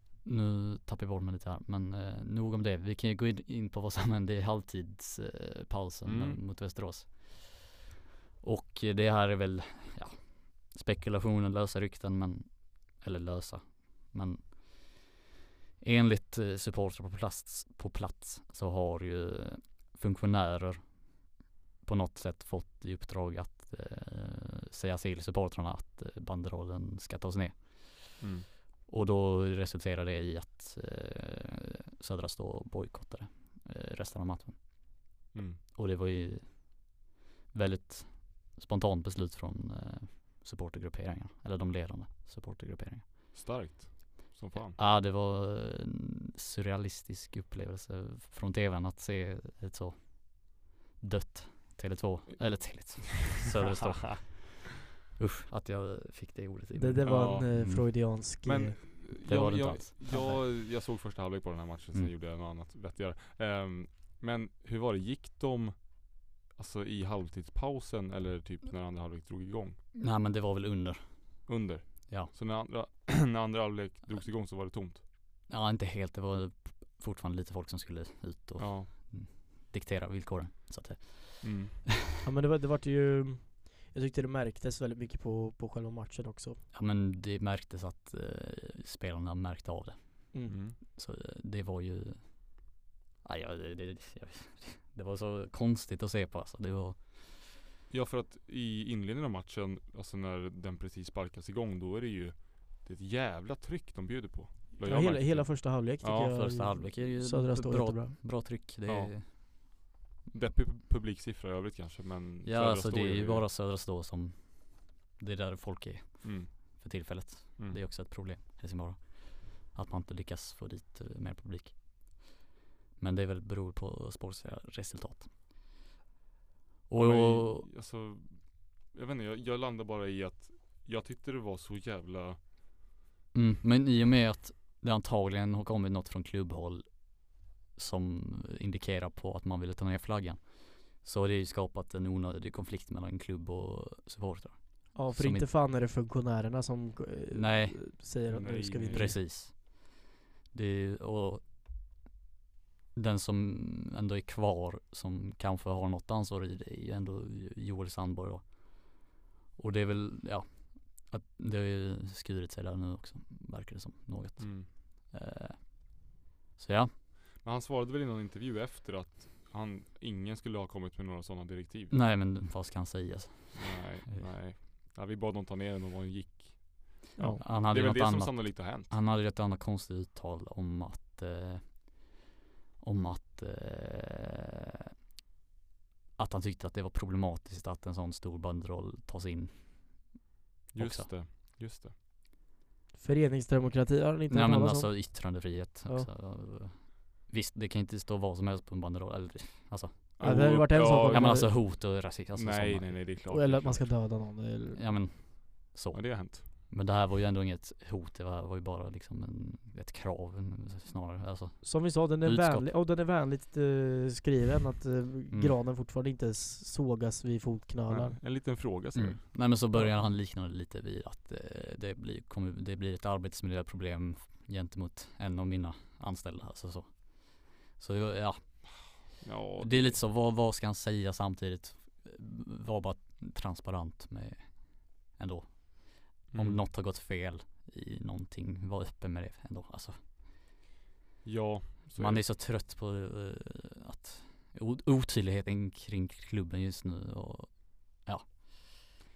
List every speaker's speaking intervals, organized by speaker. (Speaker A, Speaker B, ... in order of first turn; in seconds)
Speaker A: 0.2-7.7, 8.4-15.1, 15.8-21.1, 21.8-28.2, 28.9-34.6, 35.7-36.9, 37.5-43.1, 44.8-57.9, 59.2-60.2, 69.9-71.5, 75.5-81.8, 86.7-97.4, 106.1-109.4, 112.4-122.3, 123.0-125.3, 126.9-127.7, 133.3-145.5, 147.3-148.1, 148.9-149.9, 150.5-151.4, 152.9-159.0, 159.6-166.0, 166.6-166.9, 171.9-174.2, 177.4-182.0, 182.8-184.5, 186.2-190.1, 190.8-191.1, 194.3-203.0, 204.7-212.7, 215.3-215.6, 218.9-229.0, 229.6-240.0, 241.9-248.7
Speaker B: 6.0-6.4, 28.2-28.5, 35.3-35.6, 43.3-44.8, 57.0-57.9, 58.4-69.8, 71.5-75.0, 78.6-78.9, 81.4-81.8, 90.5-90.8, 97.9-106.4, 108.9-109.2, 110.3-113.5, 116.2-116.5, 127.0-132.4, 148.3-149.2, 164.4-164.7, 167.4-171.9, 173.5-178.9, 190.7-191.9, 200.2-203.9, 205.9-206.5, 217.9-219.9, 229.2-230.0, 236.3-236.6, 241.2-242.2
Speaker C: 56.8-58.8, 60.1-60.4, 82.2-86.6, 104.8-108.2, 144.9-149.2, 177.2-177.4, 193.0-196.1, 200.2-201.5, 203.3-205.0, 211.6-218.2